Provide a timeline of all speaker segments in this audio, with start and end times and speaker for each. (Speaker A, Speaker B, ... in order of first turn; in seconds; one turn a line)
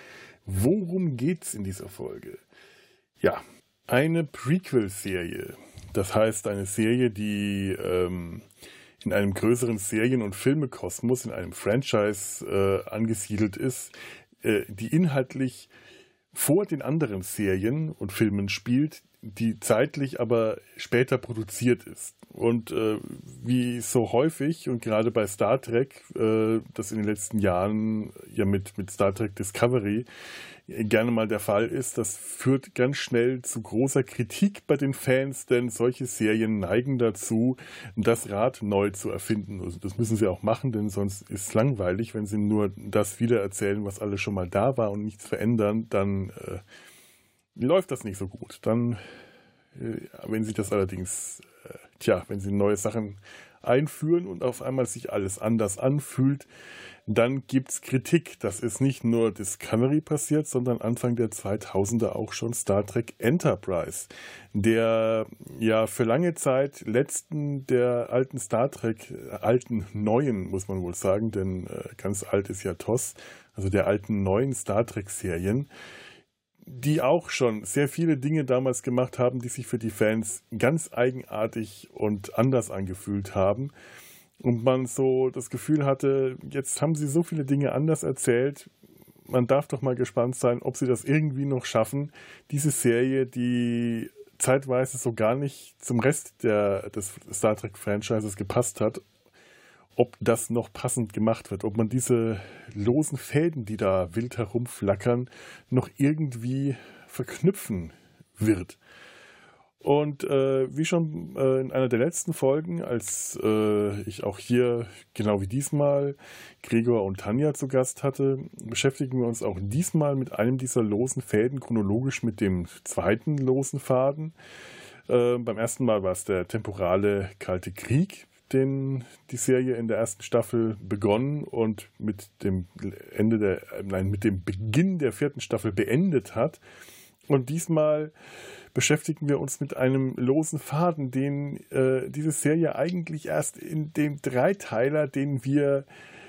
Speaker A: 0.5-2.4
Speaker A: 3.2-8.5
Speaker A: 9.0-15.7
Speaker A: 16.3-30.1
Speaker A: 30.7-46.6
Speaker A: 47.6-49.0
Speaker A: 49.8-56.5
Speaker A: 57.1-75.7
Speaker A: 76.7-83.7
Speaker A: 84.4-88.7
Speaker A: 89.3-99.0
Speaker A: 100.0-108.8
Speaker A: 109.8-124.3
Speaker A: 125.1-136.6
Speaker A: 137.3-138.1
Speaker A: 138.7-145.9